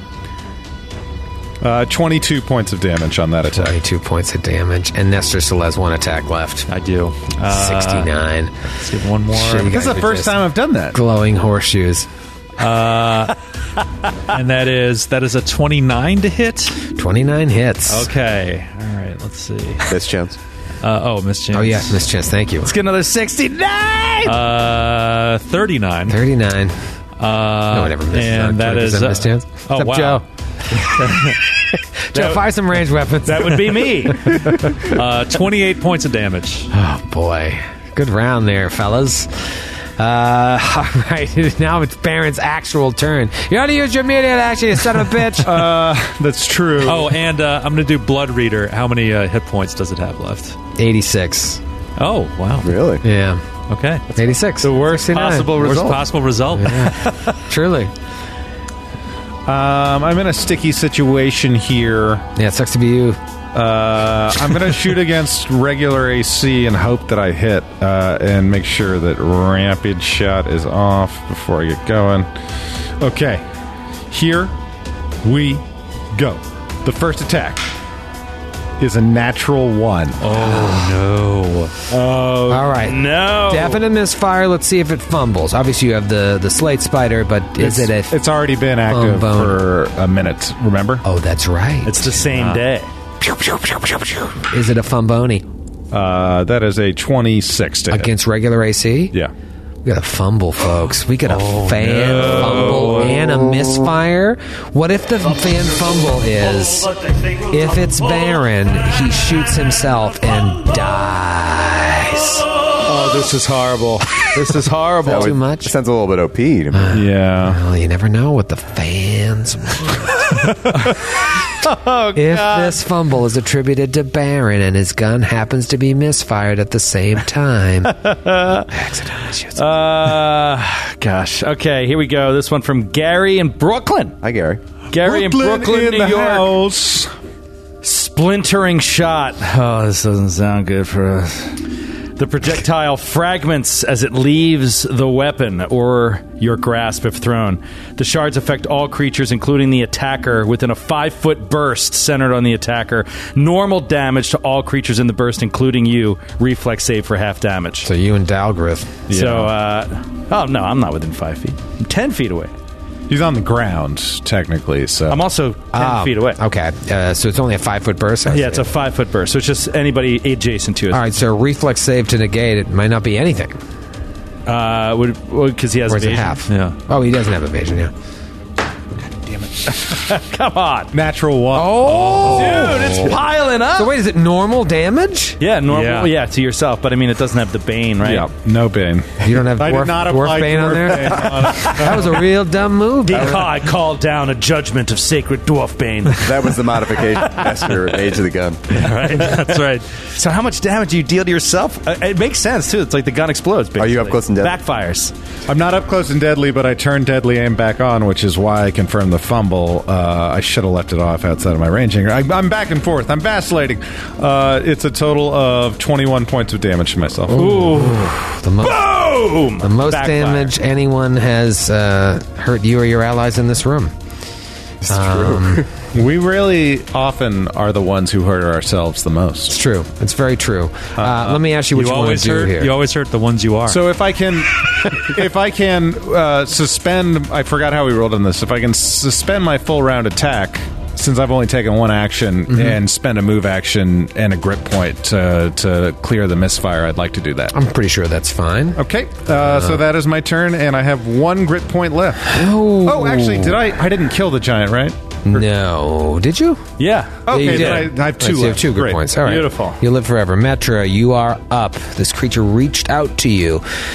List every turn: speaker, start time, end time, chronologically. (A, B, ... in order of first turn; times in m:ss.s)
0:01.6-0:03.8 A
0:03.5-0:06.7 B
0:06.7-0:08.1 C
0:07.4-0:08.5 B
0:08.8-0:09.8 C
0:09.3-0:10.4 B
0:09.6-0:11.0 A
0:10.9-0:12.1 B
0:12.6-0:13.3 C
0:14.3-0:16.8 C
0:16.9-0:18.1 B
0:17.9-0:19.9 C
0:19.9-0:20.4 D
0:20.8-0:22.0 C
0:21.5-0:22.7 B
0:22.6-0:24.4 E
0:24.2-0:26.2 C
0:26.1-0:26.8 B
0:27.2-0:30.2 C
0:27.7-0:34.6 B
0:30.8-0:31.3 C
0:32.1-0:32.4 E
0:33.2-0:34.5 E
0:34.6-0:36.7 C
0:36.7-0:45.6 B
0:45.4-0:47.1 A
0:46.8-0:50.6 C
0:50.8-0:51.6 B
0:52.0-0:52.8 C
0:52.6-0:53.0 D
0:53.0-0:53.4 B
0:53.7-0:54.0 C
0:54.1-0:55.6 B
0:54.6-0:56.0 E
0:55.1-0:57.1 C
0:56.5-0:57.9 B
0:59.4-1:02.2 A
1:02.4-1:03.2 B
1:03.5-1:12.3 A
1:13.0-1:13.4 A
1:14.1-1:14.5 A
1:15.2-1:17.6 A
1:18.8-1:20.2 A
1:20.2-1:21.7 C
1:20.4-1:20.9 B
1:21.9-1:23.8 E
1:22.5-1:28.2 B
1:27.6-1:31.0 A
1:28.9-1:29.6 B
1:31.0-1:32.6 B
1:31.8-1:32.9 E
1:33.2-1:35.4 B
1:35.9-1:38.1 A
1:37.9-1:39.1 B
1:39.8-1:46.9 B
1:41.3-1:43.2 C
1:47.5-1:52.4 B
1:52.8-1:55.4 E
1:55.0-1:55.7 B
1:55.0-1:57.0 D
1:56.7-2:01.0 B
1:56.9-1:57.6 A
2:01.6-2:02.8 E
2:02.1-2:08.1 B
2:08.0-2:08.6 E
2:08.7-2:09.6 B
2:09.6-2:14.2 E
2:14.2-2:14.6 D
2:14.9-2:16.6 E
2:14.9-2:17.1 A
2:17.8-2:21.6 E
2:22.2-2:37.9 E
2:37.8-2:39.0 B
2:39.1-2:39.5 A
2:39.1-2:42.5 E
2:43.1-2:45.2 A
2:45.1-2:46.4 E
2:45.7-2:48.7 B
2:48.3-2:51.0 E
2:50.9-2:53.6 B
2:54.5-2:56.4 E
2:55.9-2:57.9 B
2:56.5-2:56.8 C
2:59.6-3:00.9 E
3:00.9-3:02.8 A
3:01.5-3:03.2 B
3:02.2-3:03.9 E
3:03.8-3:05.4 B
3:05.4-3:08.3 E
3:05.7-3:06.1 C
3:08.0-3:12.2 A
3:09.2-3:13.4 B
3:13.0-3:18.0 E
3:16.2-3:18.6 D
3:18.7-3:19.9 C
3:18.7-3:25.1 E
3:23.8-3:24.6 D
3:25.5-3:37.6 A
3:37.3-3:40.5 E
3:37.3-3:38.8 B
3:39.6-3:43.9 B
3:44.8-3:45.6 D
3:44.9-3:45.6 B
3:45.9-3:49.6 A
3:49.5-3:52.7 B
3:51.0-3:51.4 A
3:51.7-3:53.8 C
3:53.7-4:07.5 A
4:07.5-4:08.8 B
4:08.8-4:15.4 A
4:09.3-4:09.8 B
4:12.3-4:13.6 B
4:15.3-4:16.6 B
4:16.8-4:17.9 E
4:17.3-4:19.0 A
4:17.3-4:23.6 B
4:19.2-4:19.8 E